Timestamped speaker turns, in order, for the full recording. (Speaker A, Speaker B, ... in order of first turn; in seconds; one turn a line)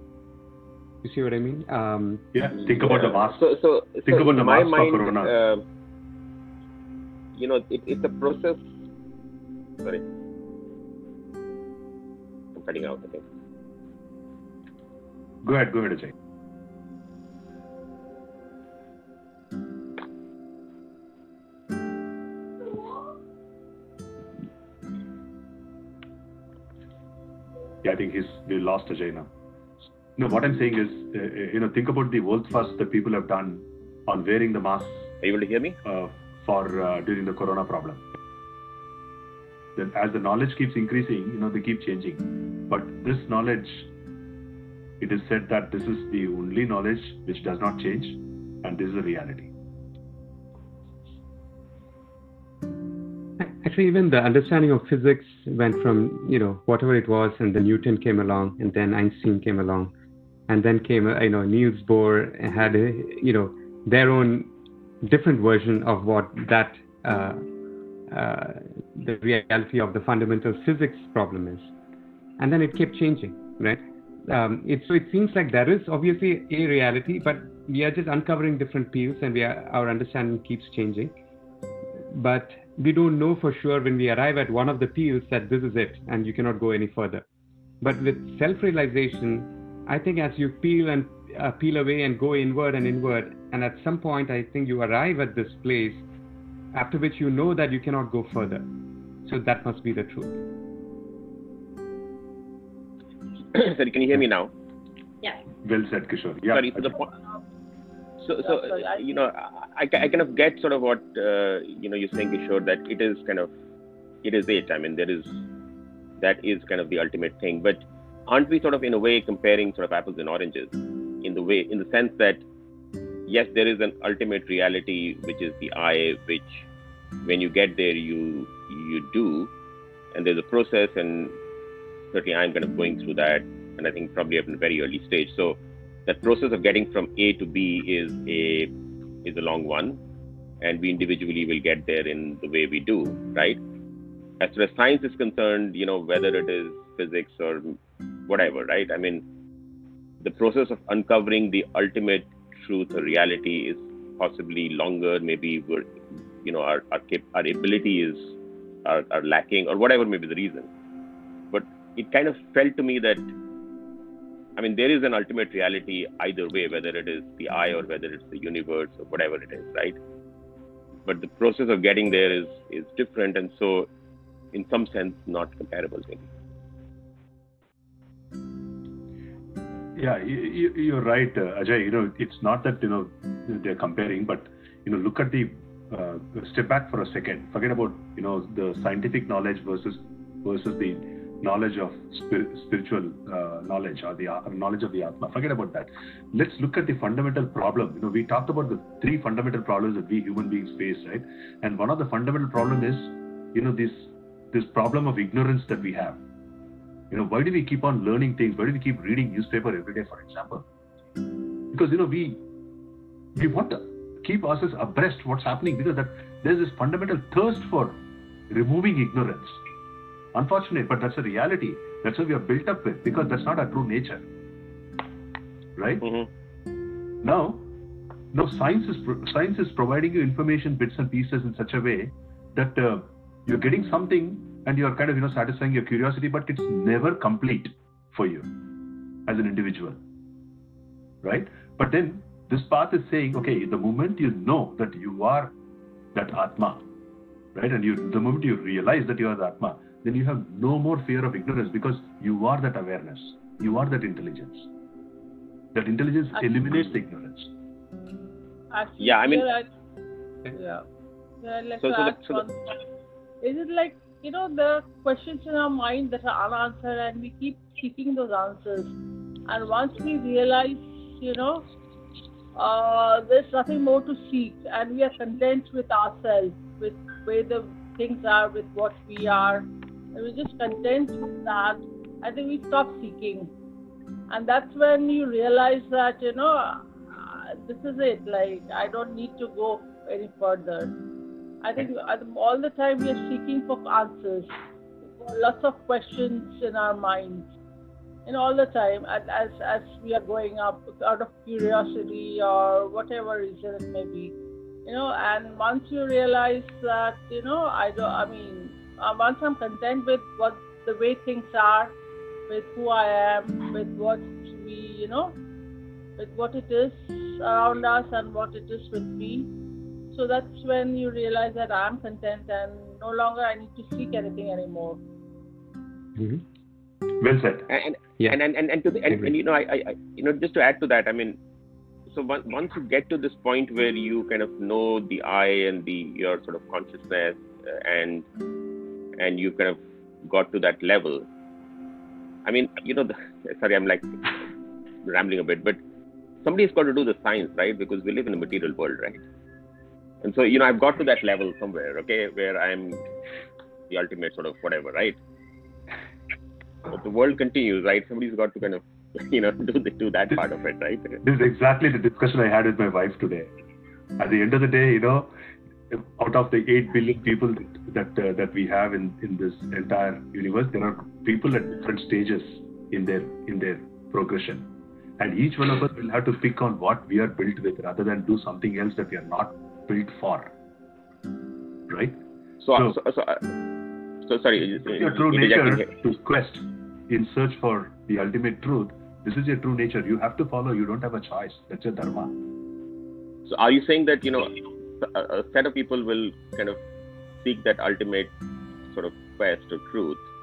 Speaker A: 1.0-2.3
Speaker B: 2.3-3.5
Speaker C: 2.5-5.6
Speaker B: 4.0-5.3
Speaker C: 7.3-8.7
Speaker C: 12.6-13.2
Speaker B: 15.4-16.1
Speaker B: 27.8-29.3
Speaker B: 30.1-35.1
Speaker C: 35.2-35.8
Speaker B: 35.8-38.0
Speaker B: 39.8-43.9
Speaker B: 45.0-49.5
Speaker A: 53.4-59.9
Speaker A: 60.5-64.5
Speaker A: 65.0-67.4
Speaker A: 68.1-71.7
Speaker A: 72.4-81.2
Speaker A: 82.1-87.2
Speaker A: 87.8-96.0
Speaker A: 96.7-98.7
Speaker A: 99.2-100.3
Speaker C: 103.5-104.5
Speaker B: 105.6-107.0
Speaker C: 106.5-107.1
Speaker C: 108.2-113.5
Speaker D: 108.4-109.0
Speaker C: 114.2-115.3
Speaker C: 116.2-122.4
Speaker C: 123.3-126.6
Speaker C: 127.2-129.5
Speaker C: 130.1-131.4
Speaker C: 132.1-138.7
Speaker C: 139.2-140.0
Speaker C: 140.6-143.6
Speaker C: 144.4-147.8
Speaker C: 148.3-149.2
Speaker C: 150.2-155.9
Speaker C: 156.4-158.3
Speaker C: 158.8-160.7
Speaker C: 161.5-163.2
Speaker C: 164.6-170.0
Speaker C: 171.0-173.9
Speaker C: 174.5-176.2
Speaker B: 179.9-206.2
Speaker B: 207.1-210.6
Speaker B: 211.7-212.4
Speaker B: 213.3-219.6
Speaker B: 220.3-224.2
Speaker B: 225.8-226.0
Speaker C: 226.0-226.3
Speaker B: 227.2-227.7
Speaker B: 228.3-238.5
Speaker B: 239.3-240.0
Speaker B: 241.2-245.5
Speaker B: 246.1-246.8
Speaker B: 247.5-254.7
Speaker B: 255.7-257.5
Speaker D: 258.7-259.7
Speaker C: 259.0-259.5
Speaker D: 260.5-260.8
Speaker D: 261.4-262.8
Speaker C: 261.8-262.4
Speaker D: 263.4-268.9
Speaker D: 269.5-271.6
Speaker D: 272.5-283.5
Speaker D: 284.3-290.9
Speaker D: 291.6-294.5
Speaker D: 295.2-297.5
Speaker D: 298.2-304.3
Speaker D: 304.9-311.9
Speaker D: 312.5-315.4
Speaker D: 316.2-319.5
Speaker D: 320.1-325.0
Speaker A: 326.1-326.4
Speaker B: 327.2-327.7
Speaker C: 327.7-331.4
Speaker A: 329.1-329.3
Speaker C: 332.1-338.2
Speaker C: 339.2-341.2
Speaker C: 342.4-344.3
Speaker C: 345.0-345.8
Speaker C: 346.4-349.2
Speaker C: 350.2-353.0
Speaker C: 353.9-355.2
Speaker C: 356.9-361.2
Speaker B: 361.2-363.5
Speaker B: 364.2-365.3
Speaker B: 365.9-374.6
Speaker B: 375.2-380.5
Speaker B: 381.9-382.2
Speaker C: 382.6-383.4
Speaker C: 384.2-385.9
Speaker B: 384.9-392.3
Speaker C: 393.5-396.8
Speaker C: 397.4-398.3
Speaker C: 398.9-400.2